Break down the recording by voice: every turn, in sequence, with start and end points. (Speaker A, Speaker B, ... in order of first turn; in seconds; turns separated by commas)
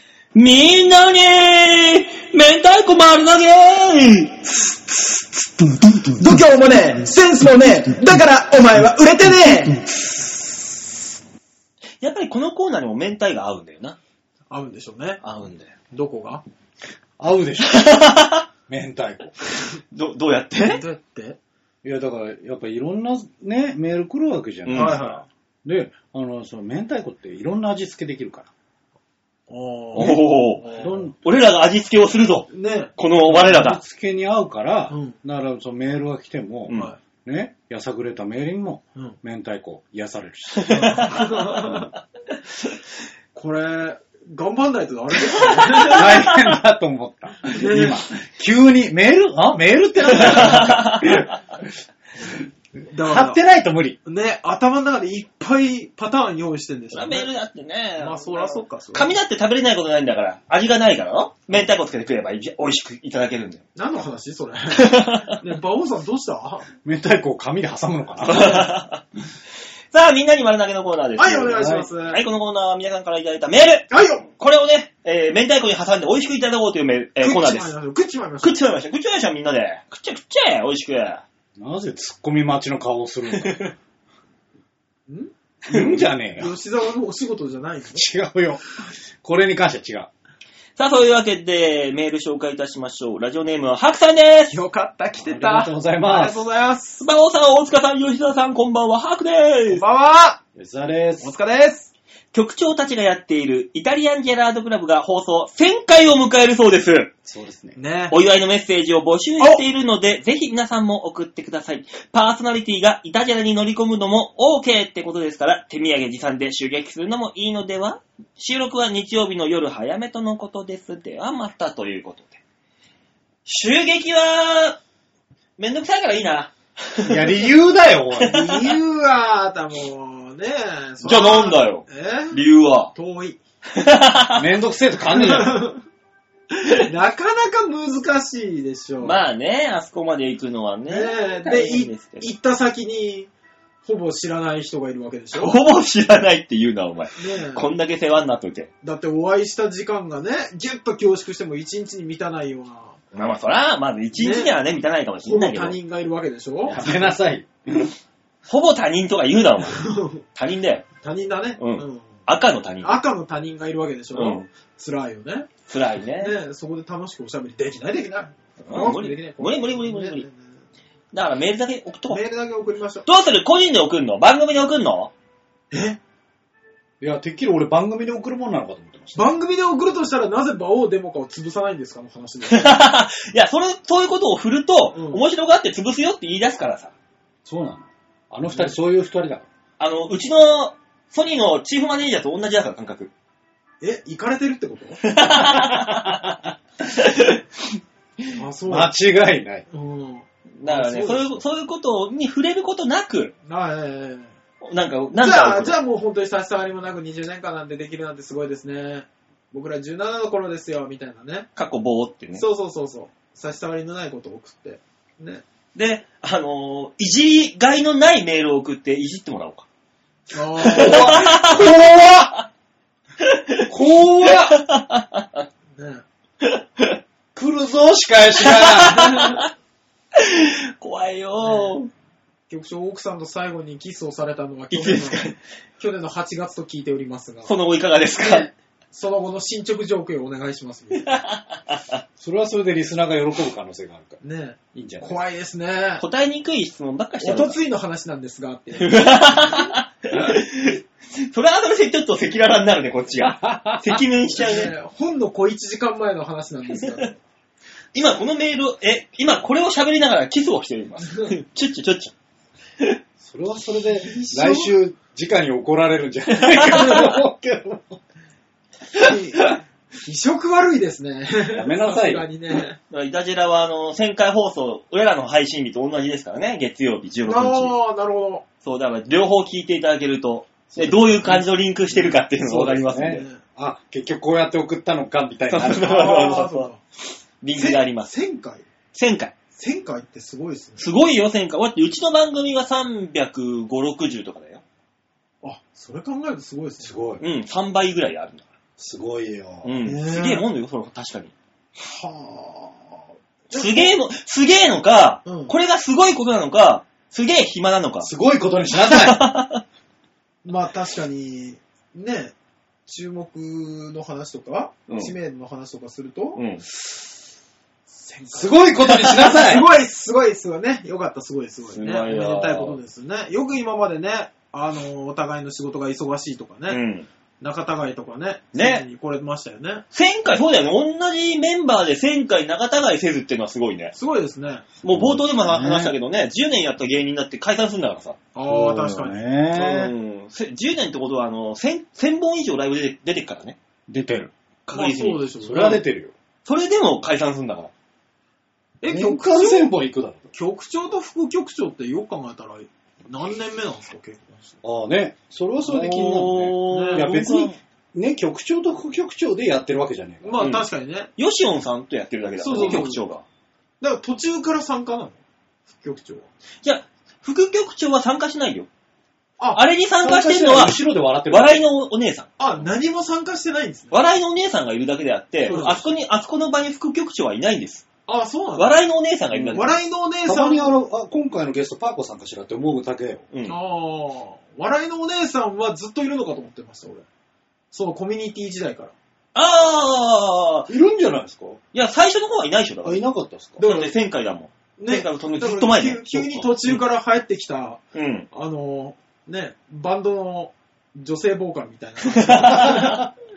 Speaker A: 0.3-4.6, Speaker B: 6.2-9.8, Speaker A: 12.0-14.0, Speaker B: 14.5-15.2, Speaker A: 15.2-15.7, Speaker B: 15.9-16.4, Speaker C: 17.2-18.0, Speaker A: 17.6-18.4, Speaker C: 18.7-19.3, Speaker A: 19.9-20.8, Speaker B: 20.6-21.4, Speaker C: 21.8-25.1, Speaker A: 24.6-25.1, Speaker B: 24.7-25.2, Speaker C: 25.6-28.5, Speaker B: 29.5-31.1, Speaker A: 29.9-33.8, Speaker C: 30.8-31.1, Speaker B: 32.5-32.9, Speaker C: 33.2-41.8, Speaker B: 34.9-35.1, Speaker A: 36.7-36.9, Speaker B: 36.7-37.0, Speaker A: 40.5-41.6, Speaker B: 40.7-41.9, Speaker B: 43.3-46.2, Speaker A: 45.3-46.4, Speaker C: 45.9-51.7, Speaker B: 47.5-48.0, Speaker A: 50.1-51.3, Speaker B: 52.9-53.4, Speaker C: 53.0-54.0, Speaker B: 54.0-57.3, Speaker A: 56.9-63.6, Speaker B: 58.0-59.1, Speaker B: 63.8-66.7, Speaker A: 64.7-65.4, Speaker C: 66.8-68.7, Speaker A: 68.2-69.0, Speaker A: 69.9-77.7, Speaker B: 71.2-72.2, Speaker C: 71.5-71.9, Speaker B: 73.9-74.2, Speaker B: 77.2-78.6, Speaker A: 78.4-81.2, Speaker C: 81.6-83.7, Speaker A: 83.3-83.7, Speaker B: 85.1-85.3, Speaker A: 85.7-86.0, Speaker C: 85.7-86.5, Speaker B: 86.3-88.0, Speaker C: 87.9-88.6, Speaker C: 89.2-90.1, Speaker A: 90.8-94.6, Speaker B: 94.5-97.1, Speaker C: 95.2-96.4, Speaker A: 97.0-99.8, Speaker B: 99.7-100.4, Speaker C: 100.5-101.3, Speaker B: 101.2-101.9, Speaker A: 102.3-107.1, Speaker C: 107.2-107.8, Speaker B: 107.8-108.2, Speaker A: 108.1-122.4, Speaker A: 123.5-124.8, Speaker A: 125.6-127.5, Speaker C: 127.0-128.4, Speaker A: 128.2-128.7, Speaker B: 128.2-132.4, Speaker A: 131.0-132.9, Speaker B: 132.9-133.4, Speaker A: 133.7-134.5, Speaker C: 134.3-135.7, Speaker B: 135.1-135.8, Speaker B: 136.5-139.2, Speaker A: 139.0-142.3, Speaker B: 140.9-143.3, Speaker B: 143.8-145.6, Speaker A: 145.3-148.7, Speaker B: 147.2-147.7, Speaker B: 148.8-153.0, Speaker A: 153.1-155.8, Speaker B: 154.2-154.5, Speaker B: 155.2-156.8, Speaker C: 156.7-157.9, Speaker A: 156.7-157.0, Speaker A: 158.4-160.9, Speaker B: 159.7-160.2, Speaker B: 161.0-162.2, Speaker A: 161.6-163.0, Speaker B: 162.8-165.5, Speaker A: 164.1-164.5, Speaker A: 165.7-166.3, Speaker B: 166.2-170.4, Speaker A: 168.6-170.2, Speaker A: 171.1-172.2, Speaker B: 172.1-173.1, Speaker A: 173.1-175.1, Speaker B: 175.7-176.0, Speaker C: 177.0-179.3, Speaker B: 179.1-182.8, Speaker A: 182.5-186.9, Speaker B: 184.9-185.2, Speaker C: 187.4-189.5, Speaker A: 189.8-193.1, Speaker B: 193.8-195.0, Speaker A: 195.0-197.4, Speaker C: 195.6-196.2, Speaker B: 198.3-198.9, Speaker C: 198.7-199.6, Speaker B: 199.7-201.4, Speaker A: 200.6-203.3, Speaker B: 203.4-204.3, Speaker A: 204.6-205.8, Speaker B: 205.2-211.5, Speaker A: 211.6-212.4, Speaker B: 212.4-215.4, Speaker A: 215.7-219.7, Speaker B: 220.3-221.4, Speaker A: 220.6-222.4, Speaker A: 223.2-225.4, Speaker C: 223.7-224.6, Speaker B: 225.7-226.0, Speaker A: 226.4-227.0, Speaker C: 227.3-229.1, Speaker A: 228.4-229.5, Speaker B: 228.9-229.4, Speaker A: 230.1-231.9, Speaker B: 231.4-231.7, Speaker B: 232.5-237.5, Speaker A: 234.7-235.4, Speaker A: 237.4-238.5, Speaker B: 238.2-241.1, Speaker A: 241.0-242.0, Speaker C: 242.2-244.2, Speaker B: 244.2-246.0, Speaker C: 244.7-245.2, Speaker A: 246.0-247.6, Speaker B: 247.2-249.7, Speaker A: 248.7-254.7, Speaker C: 253.2-254.0, Speaker B: 254.3-257.2, Speaker A: 257.9-262.1, Speaker C: 263.2-268.0, Speaker B: 264.0-264.7, Speaker A: 266.5-267.1, Speaker A: 268.9-269.5, Speaker B: 268.9-272.8, Speaker C: 271.5-272.2, Speaker A: 272.9-277.8, Speaker B: 277.2-278.4, Speaker A: 278.6-283.2, Speaker C: 280.7-281.5, Speaker C: 282.4-286.1, Speaker B: 283.0-283.4, Speaker A: 285.5-286.7, Speaker B: 285.8-286.8, Speaker A: 287.4-288.1, Speaker B: 287.5-288.7, Speaker A: 288.9-289.3, Speaker B: 289.5-290.8, Speaker A: 290.8-294.6, Speaker B: 295.4-297.0, Speaker C: 296.8-297.2, Speaker A: 297.2-298.5, Speaker C: 298.8-299.7, Speaker A: 299.6-301.3, Speaker B: 299.8-300.4, Speaker B: 301.8-303.9, Speaker A: 303.5-308.1, Speaker B: 305.2-305.5, Speaker C: 308.0-309.3, Speaker A: 308.7-309.6, Speaker B: 310.4-312.3, Speaker B: 312.9-316.4, Speaker A: 316.4-316.6, Speaker B: 317.9-326.8, Speaker C: 318.3-319.7, Speaker A: 321.7-322.8, Speaker A: 326.7-327.1, Speaker B: 327.4-329.8, Speaker A: 328.5-328.8, Speaker A: 329.9-333.9, Speaker B: 333.9-334.6, Speaker A: 334.8-338.2, Speaker C: 334.9-335.9, Speaker B: 338.3-339.8, Speaker C: 338.4-339.9, Speaker A: 339.6-343.6, Speaker C: 343.9-344.3, Speaker A: 344.7-345.2, Speaker B: 344.7-345.8, Speaker C: 345.4-346.1, Speaker A: 346.4-347.7, Speaker B: 348.8-349.7, Speaker C: 348.9-350.3, Speaker B: 350.3-354.6, Speaker C: 354.6-360.4, Speaker A: 355.6-357.6, Speaker B: 356.7-357.1, Speaker B: 360.2-361.1, Speaker A: 360.4-363.2, Speaker B: 362.4-363.0, Speaker B: 363.8-366.3, Speaker A: 366.6-368.7, Speaker A: 369.5-372.3, Speaker C: 370.0-371.6, Speaker B: 372.4-374.0, Speaker A: 373.9-377.9, Speaker B: 375.4-376.0, Speaker B: 378.1-378.7, Speaker A: 378.6-379.8, Speaker C: 379.3-379.6, Speaker B: 379.5-380.7, Speaker C: 380.2-383.2, Speaker B: 383.5-387.0, Speaker B: 387.7-388.9, Speaker A: 389.3-390.7, Speaker C: 390.7-391.6, Speaker A: 391.7-393.0, Speaker C: 392.8-393.6, Speaker B: 393.6-393.9, Speaker A: 393.6-396.8, Speaker B: 394.8-397.8, Speaker A: 397.9-398.3, Speaker B: 398.3-403.1, Speaker A: 402.0-403.1